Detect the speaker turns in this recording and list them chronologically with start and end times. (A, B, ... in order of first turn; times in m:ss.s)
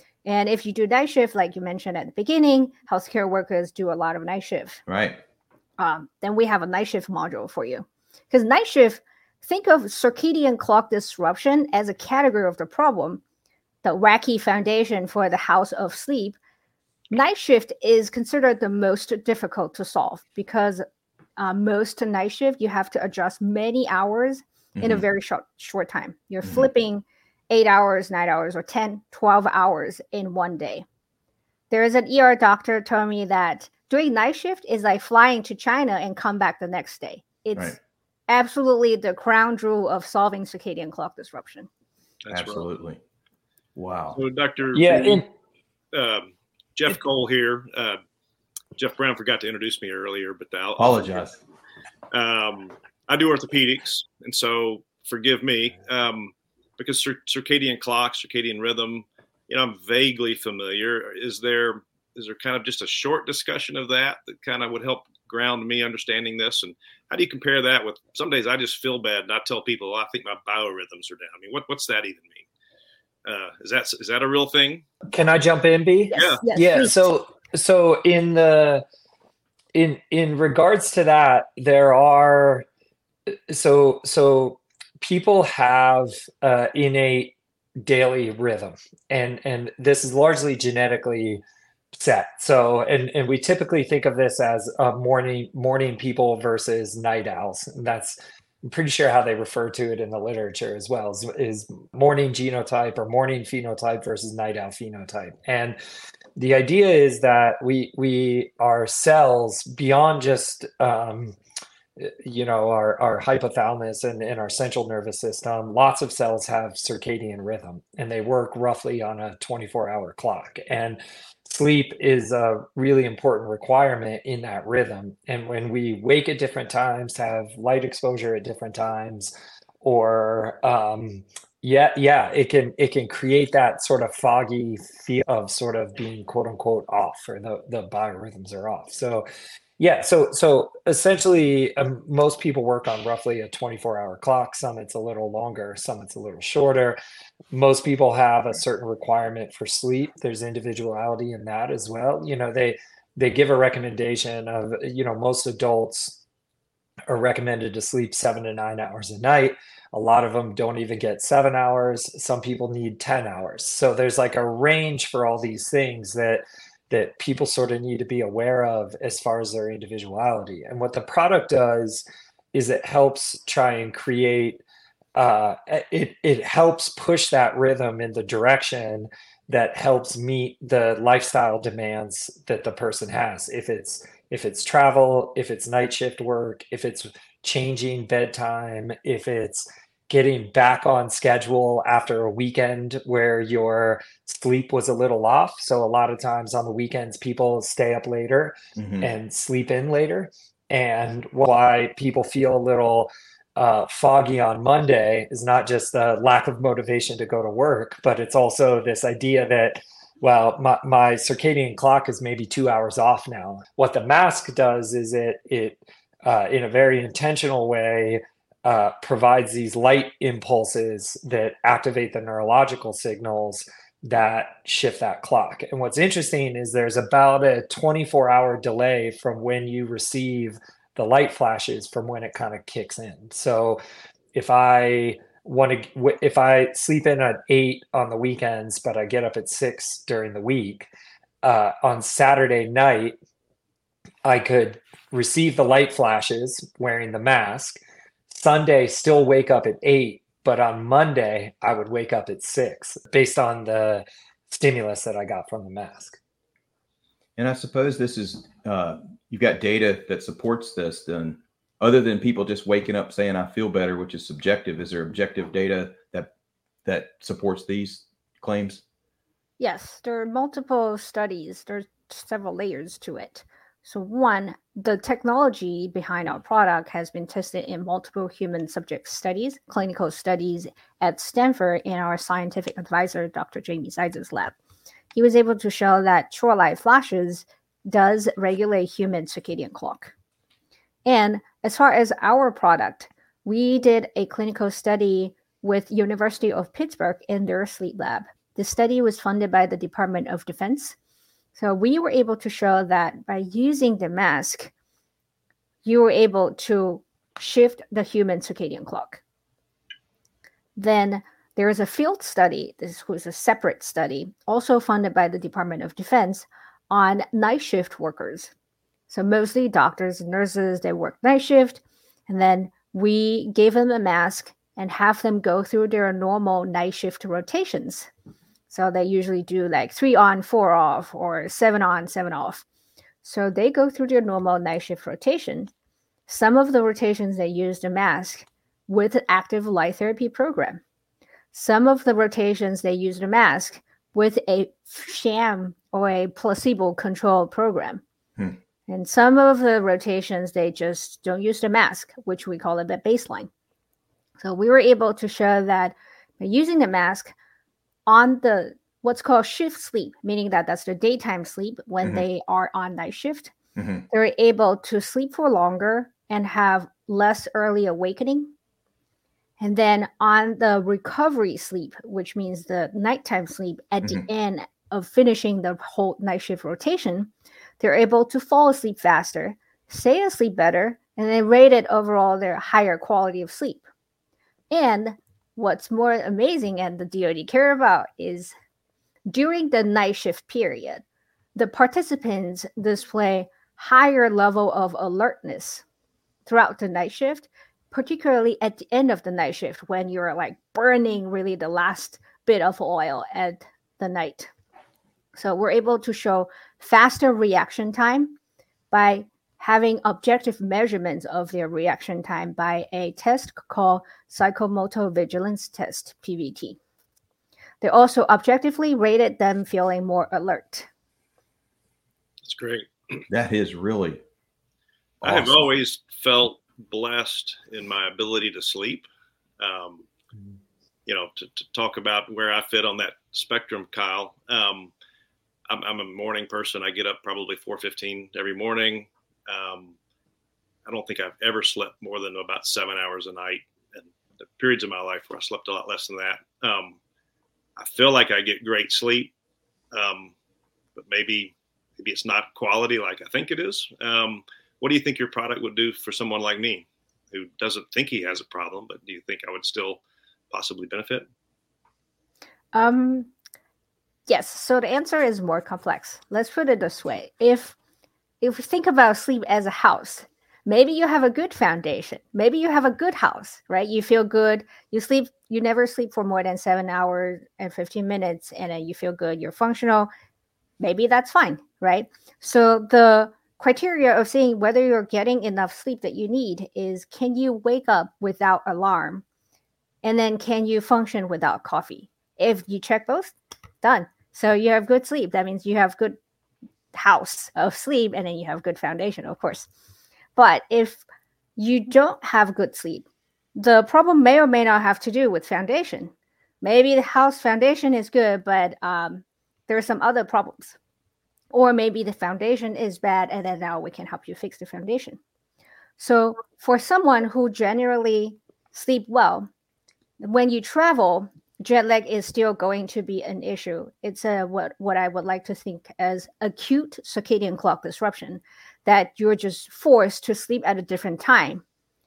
0:00.2-0:04.8 A
0:04.9-0:05.2 B
0:05.8-0:13.2 A
0:13.8-0:16.4 A
0:17.1-0:20.8 A
0:21.4-0:30.8 A
0:24.8-0:25.0 B
0:31.7-0:37.8 A
0:38.3-0:41.7 A
0:42.2-0:42.7 C
0:42.3-0:43.0 B
0:43.8-0:44.2 B
0:44.1-0:45.2 C
0:44.7-0:45.2 D
0:45.9-0:48.0 C
0:48.8-0:51.3 C
0:50.8-0:51.4 B
0:52.1-1:12.5 C
1:13.2-1:14.9 C
1:15.1-1:18.8 D
1:16.1-1:17.0 A
1:16.2-1:16.9 C
1:19.7-1:22.6 D
1:23.3-1:31.4 D
1:31.9-1:45.8 D
1:46.4-1:51.4 D
1:52.0-2:19.3 D
2:19.8-2:27.0 D
2:27.5-2:36.2 D
2:37.1-2:54.6 D
2:55.2-3:53.8 D
3:18.8-3:19.1 B
3:54.3-4:00.9 D
4:01.4-4:03.2 D
4:04.2-4:16.2 D
4:17.4-4:26.3 B
4:26.8-4:28.8 B
4:29.6-4:44.6 A
4:45.2-4:50.1 A
4:51.0-5:01.0 A
5:01.6-5:04.7 A
5:05.8-5:09.2 A
5:10.8-5:18.5 A
5:19.1-5:28.1 A
5:28.7-5:32.6 A
5:33.2-5:35.7 A
5:36.3-5:40.8 A
5:41.5-5:48.0 A
5:48.9-5:53.5 A
5:54.4-5:57.3 A
5:58.1-6:03.5 A
6:03.8-6:04.1 B
6:04.1-6:08.5 A
6:09.6-6:23.8 A
6:24.7-6:28.5 A
6:29.3-6:31.0 A
6:31.6-6:35.8 A
6:36.5-6:44.5 A
6:45.4-6:48.4 A
6:48.9-6:56.8 A
6:57.8-7:00.9 A
7:02.4-7:03.3 C
7:03.3-7:04.2 B
7:05.2-7:05.6 B
7:05.2-7:09.0 C
7:09.6-7:10.1 C
7:11.1-7:14.9 C
7:15.7-7:20.0 C
7:20.9-7:27.0 C
7:27.8-7:29.3 C
7:29.9-7:30.3 C
7:31.0-7:41.3 C
7:42.7-7:43.3 A
7:44.3-7:47.8 A
7:48.4-8:00.1 A
8:00.8-8:09.2 A
8:10.0-8:16.2 A
8:16.9-8:19.7 A
8:20.4-8:21.0 A
8:21.6-8:30.8 A
8:31.5-8:35.2 A
8:36.0-8:39.5 A
8:40.2-8:51.6 A